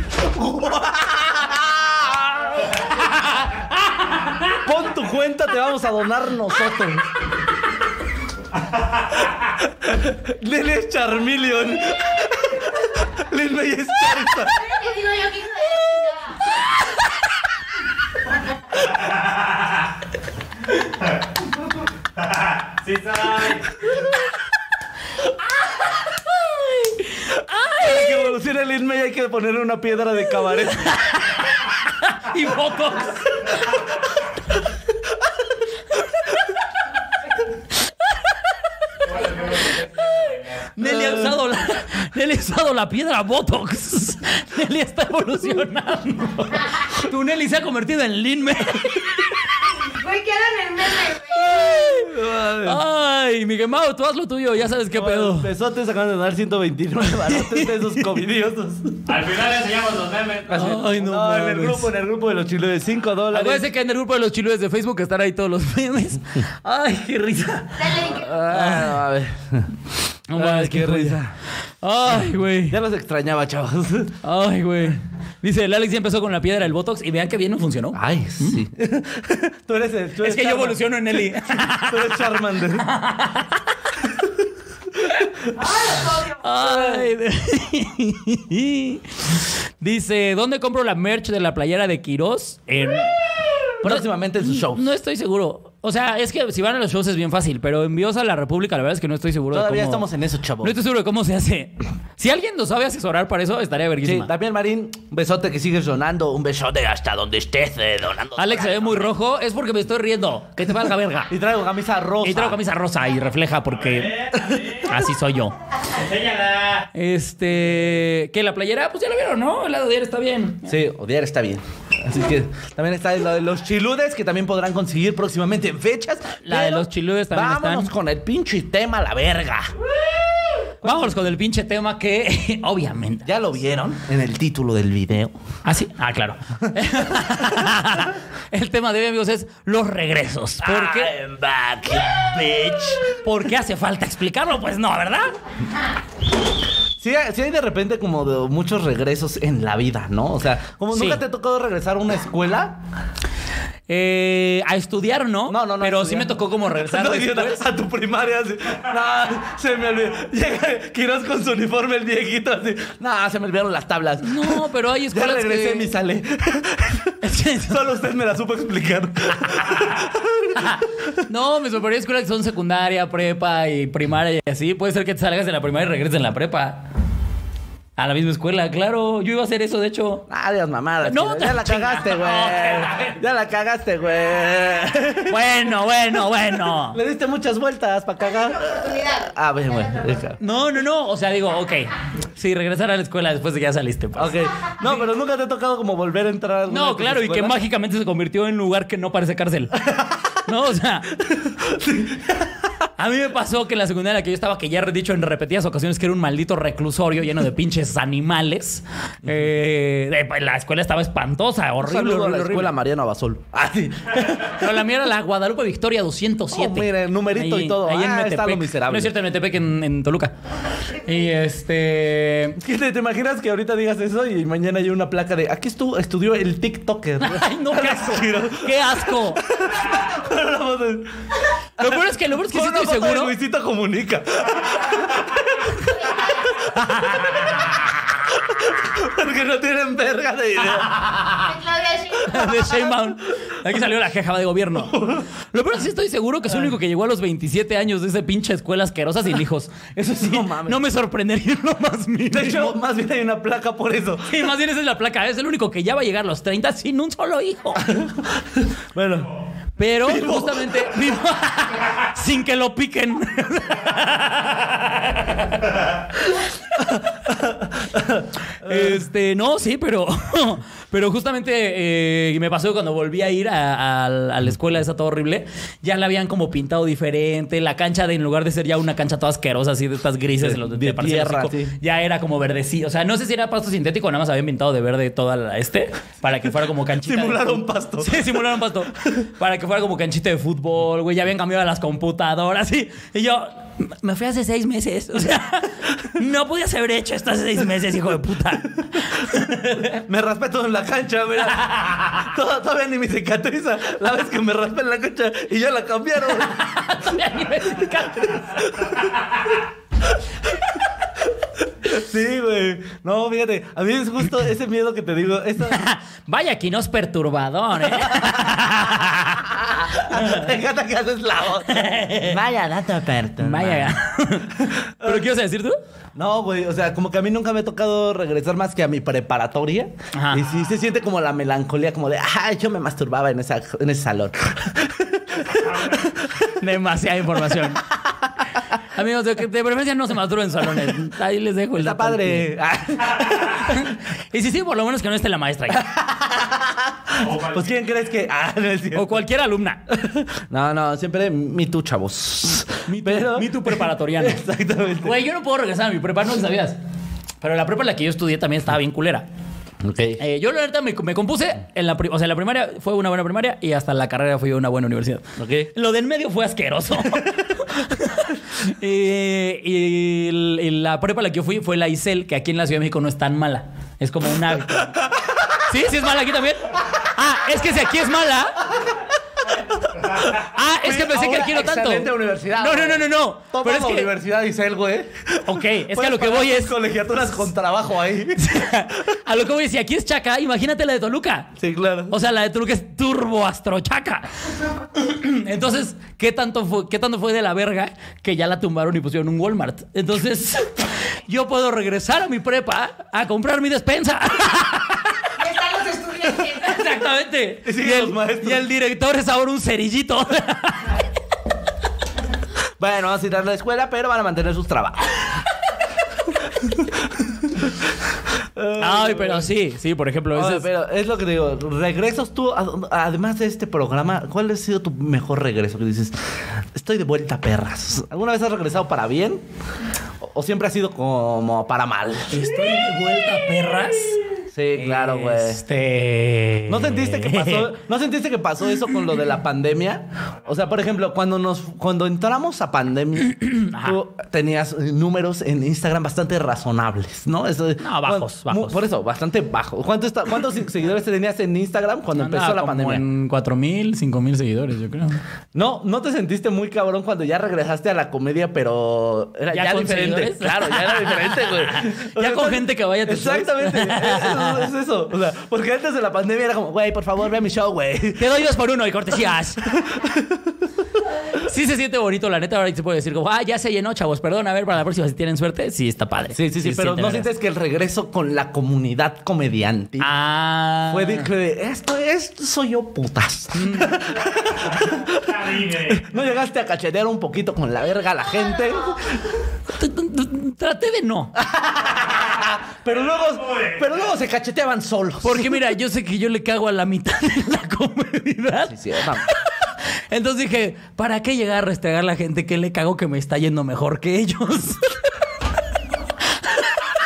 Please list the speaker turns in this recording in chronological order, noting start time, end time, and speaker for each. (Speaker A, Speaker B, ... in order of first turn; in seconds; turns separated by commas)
Speaker A: 0.2-2.7, Speaker B: 2.8-4.4, Speaker A: 4.6-7.1, Speaker A: 9.8-14.7, Speaker C: 14.5-16.4, Speaker D: 22.3-23.9, Speaker B: 26.1-28.4, Speaker A: 27.7-30.9, Speaker B: 30.7-33.8, Speaker D: 39.1-40.4, Speaker B: 40.1-49.6, Speaker A: 40.9-41.2, Speaker C: 49.7-51.8, Speaker B: 51.3-55.5, Speaker A: 51.9-52.8, Speaker A: 54.9-59.0, Speaker B: 57.1-58.1, Speaker D: 59.1-60.7, Speaker A: 60.5-63.7, Speaker B: 60.5-61.9, Speaker B: 63.3-69.0, Speaker C: 67.8-68.3, Speaker A: 68.1-69.7, Speaker B: 70.3-71.2, Speaker A: 70.3-71.3, Speaker B: 71.8-72.8, Speaker A: 72.7-74.2, Speaker B: 74.2-78.6, Speaker A: 77.9-82.9, Speaker B: 80.2-83.8, Speaker B: 86.2-93.2, Speaker A: 93.8-94.9, Speaker B: 93.8-100.1, Speaker A: 99.5-100.8, Speaker B: 100.6-104.3, Speaker A: 104.0-109.0, Speaker B: 108.4-111.4, Speaker A: 111.3-112.6, Speaker B: 112.2-115.6, Speaker D: 113.9-114.8, Speaker A: 114.4-114.8, Speaker D: 115.9-116.9, Speaker B: 116.9-120.7, Speaker A: 120.7-129.7, Speaker B: 126.5-127.9, Speaker A: 130.8-131.2, Speaker B: 130.8-133.3, Speaker A: 133.3-135.4, Speaker B: 135.7-141.1, Speaker A: 137.2-137.7, Speaker A: 140.6-143.1, Speaker B: 142.0-145.3, Speaker A: 147.0-152.8, Speaker B: 150.9-151.2, Speaker B: 153.9-157.7, Speaker A: 155.5-171.1, Speaker B: 164.2-166.0, Speaker B: 167.2-167.9, Speaker B: 170.6-176.9, Speaker B: 178.0-180.3, Speaker A: 180.3-185.5, Speaker B: 181.0-183.2, Speaker B: 185.3-187.0, Speaker A: 186.8-190.4, Speaker C: 188.4-189.3, Speaker B: 190.4-195.0, Speaker A: 194.2-197.6, Speaker B: 196.7-201.1, Speaker A: 201.2-202.5, Speaker B: 203.0-212.7, Speaker A: 211.8-214.6, Speaker B: 214.4-220.3, Speaker A: 216.5-219.2, Speaker B: 220.9-222.6, Speaker A: 222.6-231.1, Speaker B: 227.2-229.4, Speaker B: 231.8-233.3, Speaker A: 232.3-236.1, Speaker B: 236.6-237.3, Speaker A: 236.7-237.7, Speaker A: 238.2-241.1, Speaker B: 240.8-241.5, Speaker C: 241.4-242.7, Speaker B: 242.1-252.8, Speaker A: 244.8-245.3, Speaker A: 250.0-250.8, Speaker A: 252.3-254.4, Speaker B: 254.3-257.9, Speaker A: 257.8-259.3, Speaker B: 259.8-265.9, Speaker A: 260.0-260.9, Speaker A: 266.8-269.0, Speaker B: 268.6-300.0, Speaker A: 280.4-281.8, Speaker A: 287.0-288.2, Speaker A: 299.8-306.6, Speaker B: 301.6-302.0, Speaker B: 306.2-308.7, Speaker A: 308.3-309.4, Speaker A: 311.8-315.9, Speaker B: 315.6-319.6, Speaker A: 318.0-318.8, Speaker A: 319.6-323.9, Speaker B: 320.1-320.5, Speaker B: 321.6-322.4, Speaker B: 323.4-325.8, Speaker A: 324.6-325.3, Speaker A: 326.1-336.3, Speaker B: 330.1-330.5, Speaker B: 336.4-337.8, Speaker B: 338.9-342.5, Speaker A: 341.8-343.8, Speaker B: 343.6-345.8, Speaker A: 345.7-349.2, Speaker D: 347.2-347.7, Speaker B: 348.9-349.8, Speaker A: 349.9-355.1, Speaker B: 352.9-354.4, Speaker B: 355.0-356.8, Speaker B: 357.4-359.3, Speaker A: 359.8-360.2, Speaker B: 360.2-375.0, Speaker A: 365.4-365.7, Speaker B: 375.7-378.6, Speaker A: 379.8-388.5, Speaker B: 380.4-384.1, Speaker B: 385.4-386.8, Speaker B: 388.4-391.6, Speaker A: 391.6-392.1, Speaker B: 392.1-405.3, Speaker C: 405.4-406.9, Speaker B: 406.4-411.0, Speaker A: 407.6-408.7, Speaker A: 412.8-415.2, Speaker A: 418.6-419.5, Speaker B: 418.8-420.7, Speaker A: 420.3-429.4, Speaker A: 430.2-432.4, Speaker B: 432.3-434.2, Speaker A: 434.5-435.6, Speaker B: 434.8-437.7, Speaker A: 436.7-453.0, Speaker B: 443.4-444.0, Speaker B: 447.8-448.8, Speaker B: 452.1-455.2, Speaker A: 455.5-468.3, Speaker B: 459.5-464.7, Speaker B: 468.2-469.8, Speaker A: 469.7-470.5, Speaker B: 471.3-477.3, Speaker A: 476.3-480.1, Speaker B: 480.0-481.3, Speaker A: 480.9-489.2, Speaker B: 483.6-484.0, Speaker D: 485.4-486.0, Speaker B: 489.7-491.3, Speaker A: 491.4-495.5, Speaker D: 493.5-493.8, Speaker B: 495.2-505.2, Speaker A: 498.7-499.3, Speaker B: 506.5-506.9